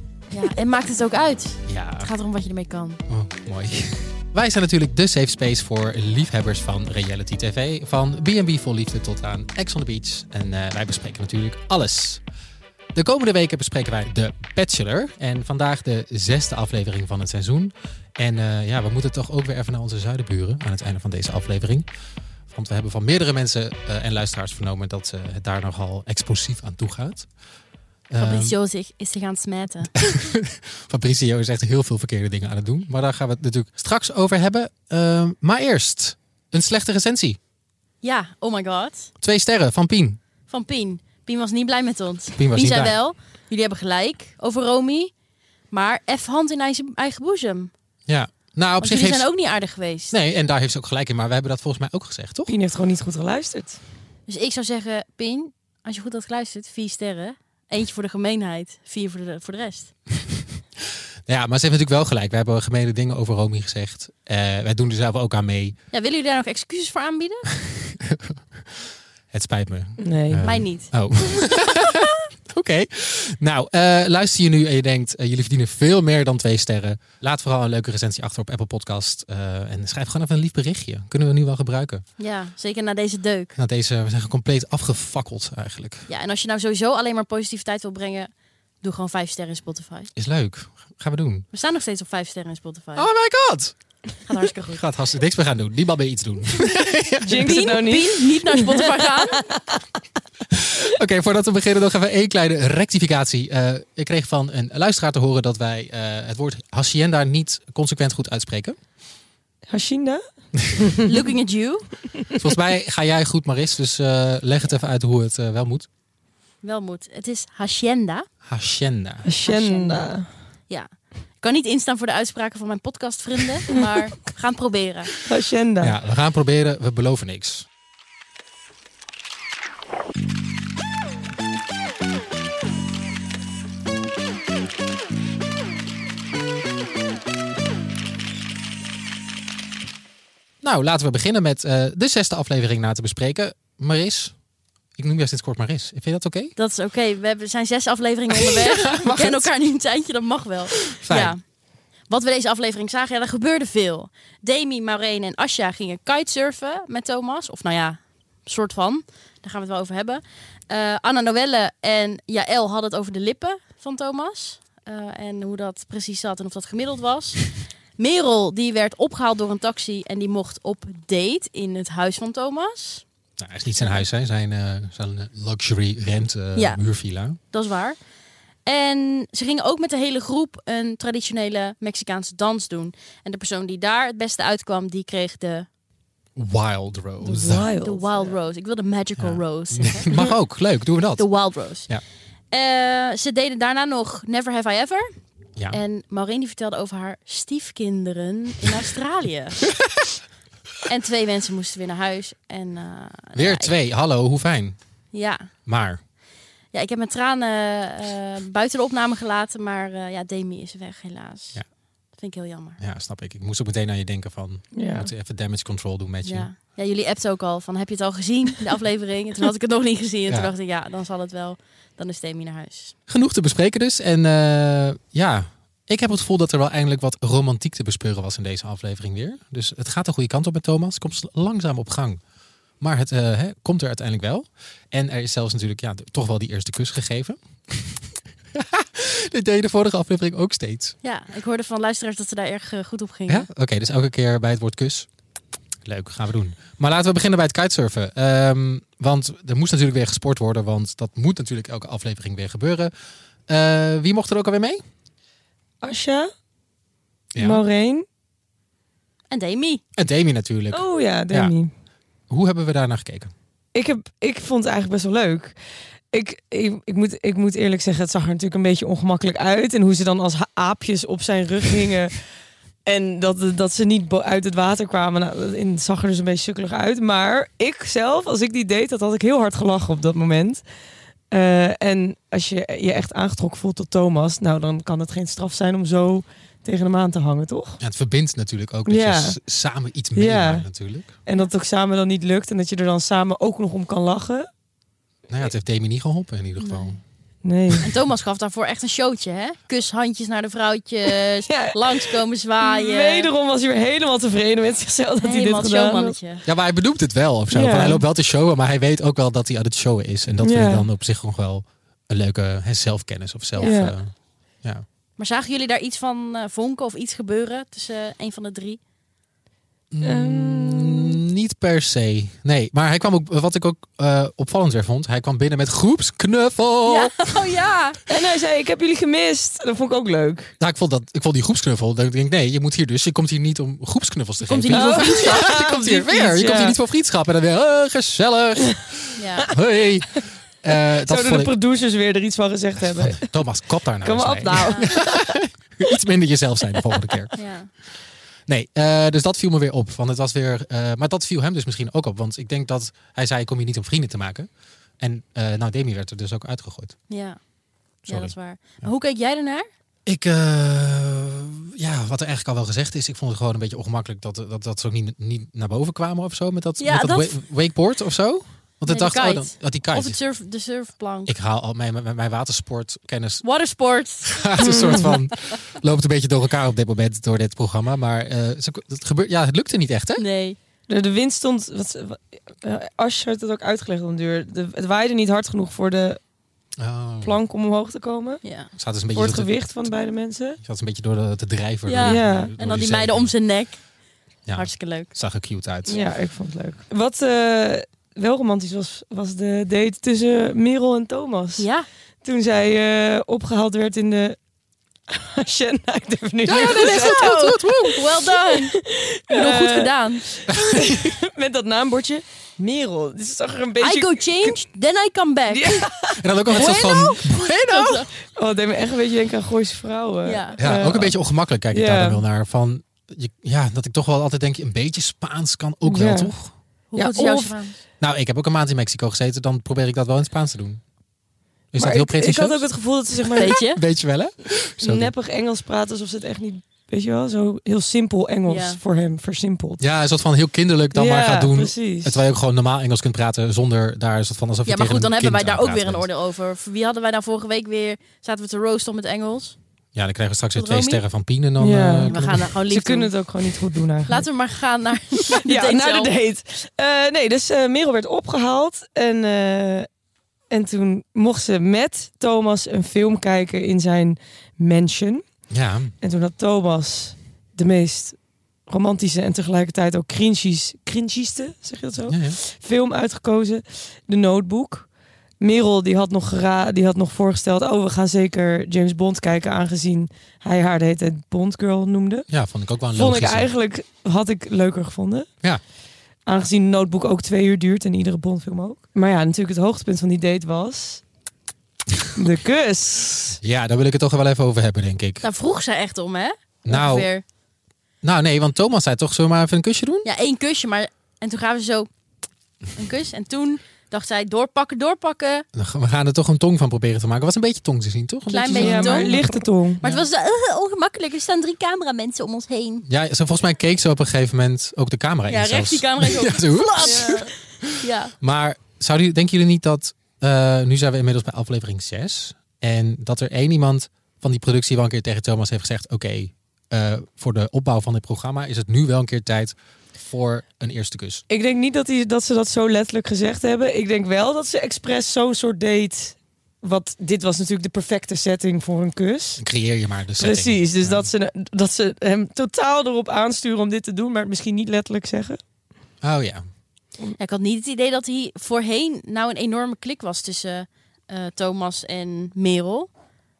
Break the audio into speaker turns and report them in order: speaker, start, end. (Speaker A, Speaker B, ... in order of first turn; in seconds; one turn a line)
Speaker A: 0.3-3.0
Speaker B: 1.6-2.1
Speaker B: 3.1-12.2
Speaker B: 12.9-21.9
Speaker B: 22.5-27.3
Speaker B: 28.1-28.6
Speaker A: 28.2-29.9
Speaker B: 29.9-37.4
Speaker A: 38.0-39.1
Speaker B: 39.2-40.2
Speaker A: 40.5-45.1
Speaker B: 42.4-43.0
Speaker A: 45.7-47.7
Speaker B: 48.1-49.3
Speaker A: 48.8-50.1
Speaker B: 50.1-52.5
Speaker C: 52.5-53.8
Speaker A: 54.3-59.9
Speaker B: 61.2-65.8
Speaker A: 65.9-67.5
Speaker B: 67.6-82.0
Speaker C: 70.0-70.4
Speaker A: 70.4-70.9
Speaker A: 82.2-83.5
Speaker B: 83.5-86.1
Speaker A: 86.1-90.1
Speaker B: 90.2-91.5
Speaker A: 91.5-93.1
Speaker B: 93.0-93.7
Speaker A: 94.2-94.8
Speaker B: 94.7-97.6
Speaker C: 97.2-99.8
Speaker A: 97.4-99.4
Speaker B: 100.5-108.8
Speaker C: 109.7-110.2
Speaker C: 110.8-111.0
Speaker A: 111.0-111.9
Speaker B: 112.4-115.9
Speaker A: 116.6-118.3
Speaker B: 118.4-119.2
Speaker C: 119.2-120.3
Speaker A: 119.4-120.1
Speaker A: 121.4-125.1
Speaker C: 125.2-125.9
Speaker B: 125.8-127.7
Speaker B: 140.6-144.3
Speaker B: 144.9-146.5
Speaker A: 146.6-151.4
Speaker B: 148.3-149.5
Speaker B: 150.9-151.3
Speaker A: 152.1-173.0
Speaker B: 173.4-177.4
Speaker A: 177.5-178.0
Speaker A: 178.6-185.7
Speaker B: 186.3-187.7
Speaker C: 187.2-188.3
Speaker A: 187.8-190.1
Speaker B: 189.2-191.3
Speaker A: 191.2-191.9
Speaker A: 192.5-195.2
Speaker A: 195.7-199.6
Speaker A: 200.8-203.7
Speaker B: 203.3-204.8
Speaker A: 205.1-205.5
Speaker B: 205.7-206.0
Speaker A: 206.7-211.6
Speaker A: 212.2-212.8
Speaker B: 212.8-216.5
Speaker C: 214.7-215.1
Speaker A: 216.2-222.9
Speaker B: 223.1-232.2
Speaker B: 232.8-238.0
Speaker B: 238.5-240.9
Speaker A: 241.0-243.5
Speaker B: 243.3-245.1
Speaker B: 245.8-252.9
Speaker B: 253.5-254.8
Speaker C: 255.8-256.3
Speaker B: 257.3-257.6
Speaker C: 257.4-258.0
Speaker A: 259.3-259.8
Speaker B: 259.9-261.5
Speaker C: 260.7-261.7
Speaker B: 262.3-263.3
Speaker C: 263.7-265.5
Speaker C: 266.1-272.1
Speaker C: 272.9-280.6
Speaker C: 281.3-287.8
Speaker B: 287.8-291.1
Speaker C: 288.9-289.4
Speaker C: 290.1-290.7
Speaker C: 291.2-294.5
Speaker B: 295.3-297.0
Speaker A: 296.6-296.9
Speaker C: 297.4-297.9
Speaker A: 297.8-303.3
Speaker C: 301.5-306.1
Speaker A: 305.2-306.4
Speaker B: 306.4-314.1
Speaker C: 307.5-308.0
Speaker C: 310.4-310.9
Speaker C: 313.6-313.9
Speaker A: 315.2-318.8
Speaker B: 319.9-327.3
Speaker C: 320.0-321.2
Speaker A: 326.9-328.0
Speaker C: 328.1-330.5
Speaker B: 330.6-341.5
Speaker A: 334.5-335.6
Speaker C: 334.7-336.8
Speaker A: 339.1-339.5
Speaker C: 340.9-343.3
Speaker B: 342.9-347.3
Speaker C: 344.0-345.4
Speaker A: 344.5-345.0
Speaker A: 347.4-347.7
Speaker B: 348.5-354.5
Speaker B: 355.0-356.9
Speaker A: 357.1-357.4
Speaker B: 358.1-358.9
Speaker A: 358.1-359.7
Speaker B: 360.1-370.2
Speaker A: 366.8-367.4
Speaker A: 368.9-371.3
Speaker B: 371.2-373.4
Speaker A: 373.4-375.1
Speaker B: 374.2-380.2
Speaker C: 374.6-375.1
Speaker A: 380.2-380.6
Speaker C: 380.9-386.2
Speaker B: 386.8-387.4
Speaker C: 387.2-388.4
Speaker A: 388.4-388.7
Speaker B: 388.8-389.7
Speaker C: 389.1-390.6
Speaker B: 390.6-393.3
Speaker A: 391.9-393.8
Speaker C: 392.0-392.5
Speaker B: 394.4-396.0
Speaker A: 394.5-395.1
Speaker C: 395.9-401.7
Speaker A: 401.6-401.9
Speaker C: 402.2-404.4
Speaker C: 405.1-407.5
Speaker B: 406.4-408.1
Speaker A: 406.6-410.2
Speaker C: 408.2-414.6
Speaker B: 410.5-411.1
Speaker A: 413.8-415.8
Speaker C: 415.5-417.2
Speaker B: 416.1-418.1
Speaker A: 416.5-416.9
Speaker A: 417.7-418.1
Speaker C: 418.3-421.1
Speaker A: 420.2-420.6
Speaker B: 420.6-426.5
Speaker C: 421.7-422.2
Speaker C: 425.8-426.3
Speaker A: 426.9-427.8
Speaker C: 426.9-427.6
Speaker B: 428.0-430.8
Speaker B: 431.7-432.7
Speaker C: 431.8-433.6
Speaker B: 433.3-435.1
Speaker A: 433.3-433.8
Speaker C: 434.8-439.8
Speaker A: 438.5-438.8
Speaker B: 439.8-446.1
Speaker C: 440.9-442.2
Speaker A: 444.6-449.6
Speaker B: 449.9-452.5
Speaker A: 450.5-451.0
Speaker C: 451.6-454.2
Speaker A: 452.1-453.1
Speaker A: 454.0-456.1
Speaker C: 455.3-459.9
Speaker C: 460.5-465.2
Speaker B: 465.5-465.9
Speaker C: 466.0-474.9
Speaker B: 472.1-472.4
Speaker C: 475.4-482.3
Speaker B: 482.3-483.5
Speaker C: 482.9-485.3
Speaker C: 486.2-491.0
Speaker C: 492.1-493.4
Speaker B: 493.4-495.2
Speaker A: 495.2-497.2
Speaker B: 496.6-497.1
Speaker B: 498.0-500.1
Speaker A: 500.0-501.9
Speaker A: 502.7-505.4
Speaker B: 505.5-509.3
Speaker A: 508.3-512.9
Speaker C: 508.5-509.8
Speaker B: 509.8-510.1
Speaker B: 512.9-531.2
Speaker A: 515.2-518.1
Speaker C: 516.8-517.3
Speaker C: 531.3-539.4
Speaker B: 539.4-541.1
Speaker C: 540.2-545.4
Speaker B: 546.0-546.4
Speaker A: 547.1-552.9